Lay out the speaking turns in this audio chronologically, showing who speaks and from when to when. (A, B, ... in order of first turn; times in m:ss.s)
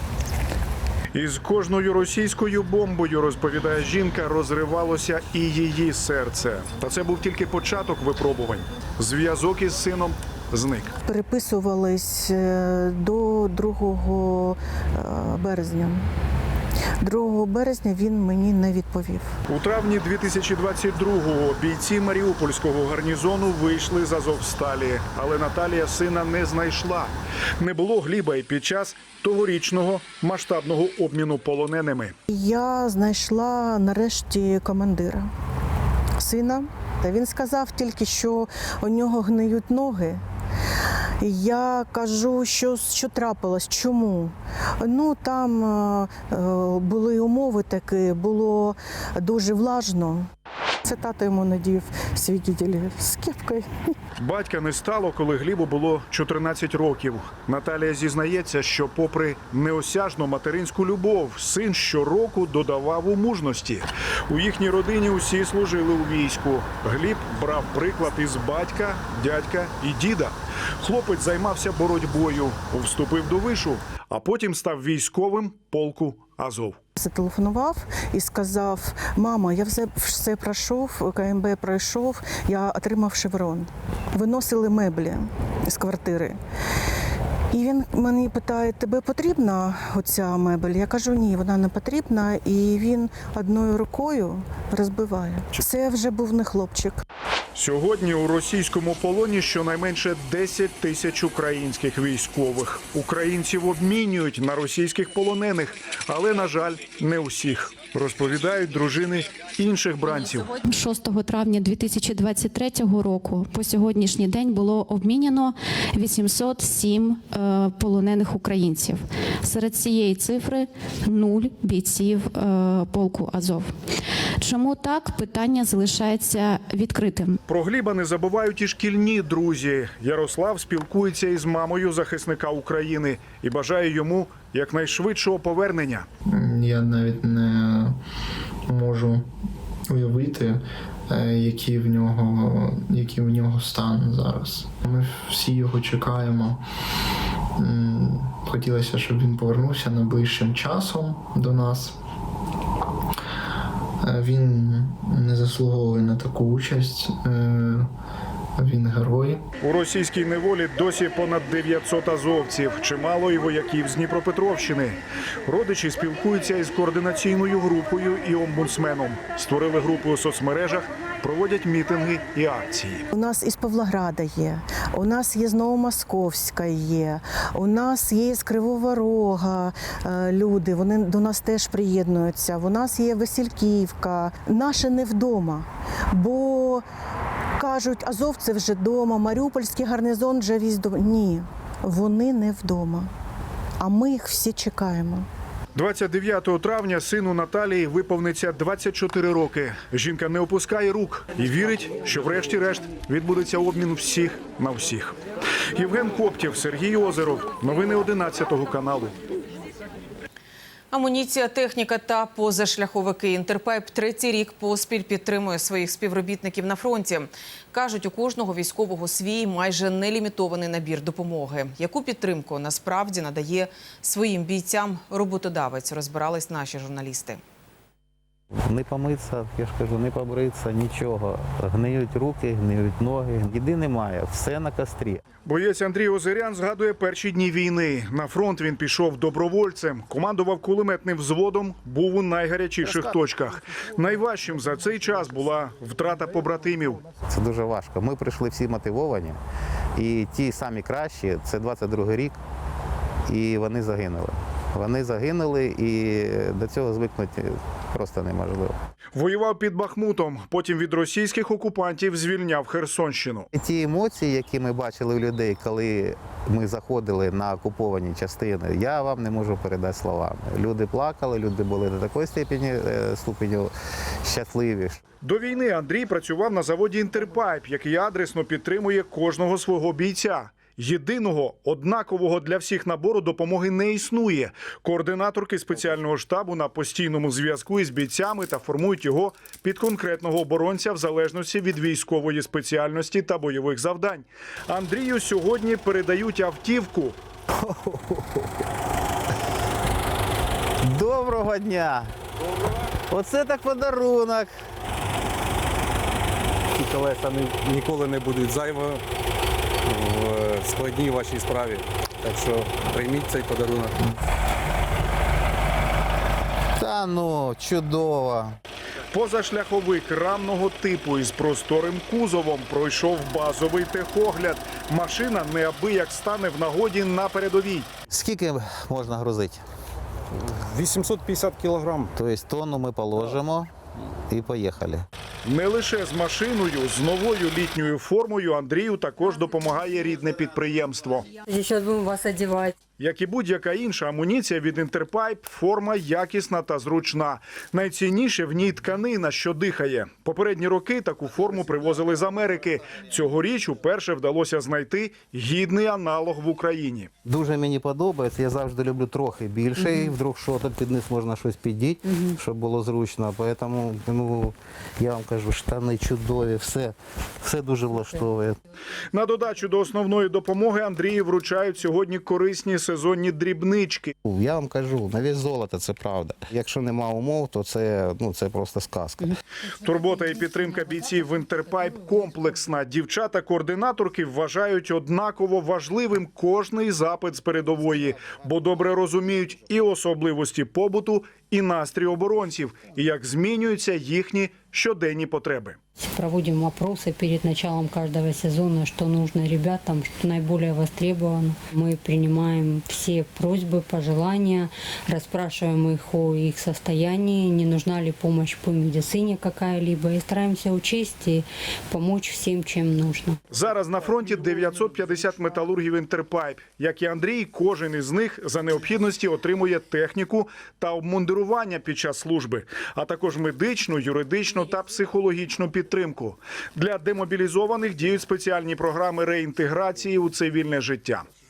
0:01.1-0:10.9 A
0:11.1-0:16.1 B
0:17.0-0:19.3 B
0:19.5-0:32.2 A
0:32.3-0:35.3 B
0:36.2-0:40.2 B
0:41.2-0:50.3 B
0:50.8-0:53.7 B
0:54.2-1:16.8 A
1:17.0-1:26.4 B
1:27.5-1:37.0 B
1:37.6-1:50.5 A
1:50.6-2:03.8 C
2:04.4-2:07.4 C
2:07.5-2:16.1 A
2:16.3-2:17.9 D
2:18.7-2:19.2 D
2:19.9-2:26.6 D
2:27.6-2:31.9 D
2:34.0-2:37.8 D
2:38.6-2:39.4 D
2:39.6-2:53.1 A
2:53.1-3:06.8 B
3:07.6-3:13.1 B
3:13.8-3:15.3 B
3:15.8-3:25.2 A
3:25.7-3:29.2 A
3:30.9-3:47.4 E
3:48.5-3:55.2 F
3:55.5-4:07.0 A
4:07.3-4:09.4 F
4:10.0-4:12.4 F
4:13.3-4:18.8 F
4:19.2-4:23.5 A
4:23.5-4:33.7 F
4:34.2-4:35.0 F
4:35.2-4:57.2 A
4:57.6-4:58.4 F
5:00.8-5:02.1 F
5:03.1-5:04.5 F
5:06.8-5:09.0 G
5:09.9-5:14.0 G
5:16.8-5:18.6 F
5:19.1-5:27.9 A
5:28.1-5:29.6 F
5:30.4-5:32.1 G
5:32.1-5:33.7 F
5:34.3-5:35.0 F
5:35.5-5:41.3 A
5:41.4-5:42.7 H
5:43.0-5:57.1 A
5:57.2-6:08.6 F
6:09.1-6:14.1 A
6:14.2-6:19.4 F
6:19.8-6:35.8 A
6:36.0-6:53.4 H
6:53.5-7:11.3 A